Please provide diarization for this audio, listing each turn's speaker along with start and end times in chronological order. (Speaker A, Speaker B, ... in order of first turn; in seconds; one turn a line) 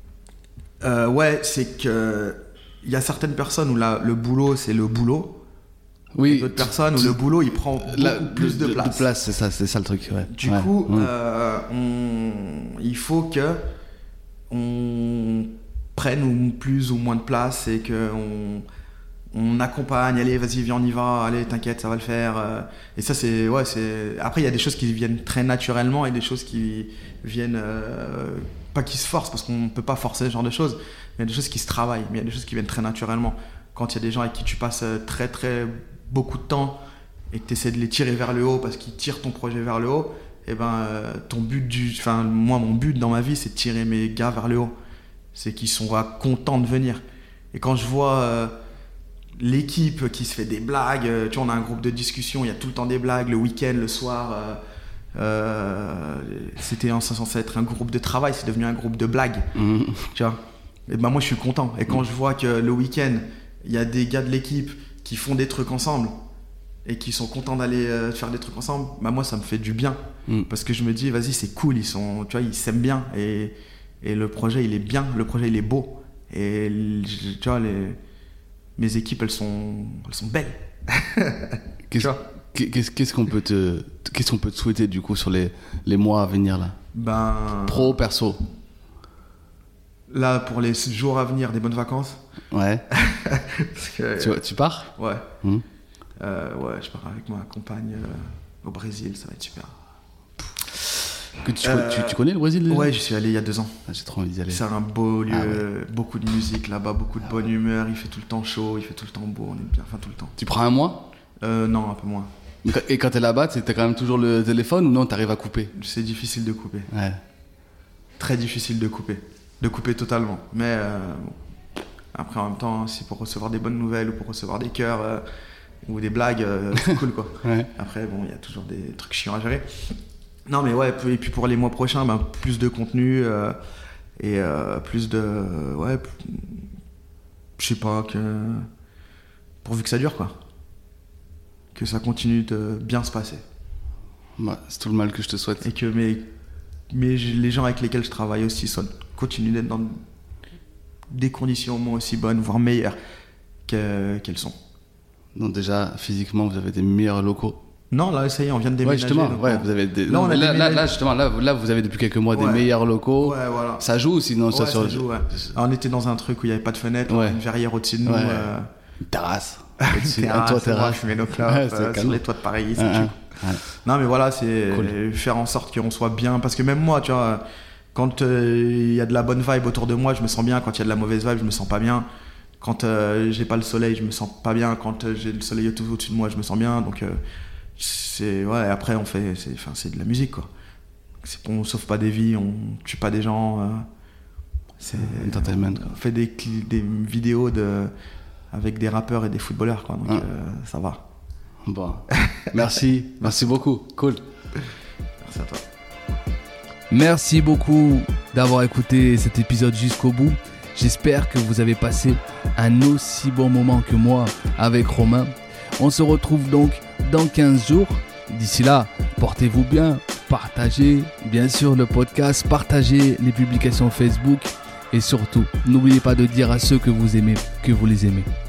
Speaker A: 0.8-5.4
Speaker B: 6.1-7.2
Speaker A: 6.2-9.0
Speaker B: 7.8-11.1
Speaker A: 10.3-13.6
Speaker A: 14.5-18.6
Speaker A: 19.3-44.7
Speaker A: 45.3-47.0
Speaker A: 47.5-48.5
Speaker A: 49.4-54.6
Speaker A: 55.1-59.5
Speaker B: 59.5-60.1
Speaker A: 60.1-66.1
Speaker A: 66.8-78.0
Speaker A: 78.8-82.2
Speaker B: 81.9-86.8
Speaker A: 86.9-88.0
Speaker B: 87.7-88.4
Speaker A: 90.1-92.2
Speaker B: 92.5-92.8
Speaker A: 92.9-94.4
Speaker B: 94.2-94.9
Speaker A: 94.9-95.2
Speaker A: 96.2-99.7
Speaker B: 101.4-102.9
Speaker A: 101.6-103.8
Speaker B: 103.8-104.6
Speaker A: 104.5-110.3
Speaker B: 105.3-105.6
Speaker B: 110.4-111.1
Speaker A: 111.4-112.3
Speaker B: 112.6-115.7
Speaker A: 115.7-116.9
Speaker B: 116.9-117.2
Speaker A: 118.2-121.4
Speaker A: 122.1-125.2
Speaker A: 125.8-129.7
Speaker B: 127.4-127.7
Speaker A: 130.5-133.6
Speaker A: 134.2-136.7
Speaker A: 137.6-138.7
Speaker A: 139.6-140.3
Speaker A: 141.7-143.4
Speaker B: 144.4-145.7
Speaker A: 145.6-146.3
Speaker A: 146.9-150.0
Speaker A: 151.1-153.0
Speaker A: 153.7-154.5
Speaker B: 155.3-157.6
Speaker A: 157.9-160.9
Speaker B: 158.8-165.5
Speaker A: 162.3-163.8
Speaker A: 164.5-168.7
Speaker B: 167.1-167.4
Speaker B: 168.0-172.2
Speaker A: 169.8-177.4
Speaker B: 172.8-173.6
Speaker A: 177.9-182.1
Speaker A: 182.6-187.2
Speaker A: 187.8-190.5
Speaker A: 191.2-193.8
Speaker A: 194.8-197.9
Speaker B: 195.0-195.9
Speaker A: 198.5-201.0
Speaker B: 201.6-204.2
Speaker A: 202.2-202.5
Speaker A: 203.2-203.5
Speaker A: 205.2-205.6
Speaker C: 206.9-228.3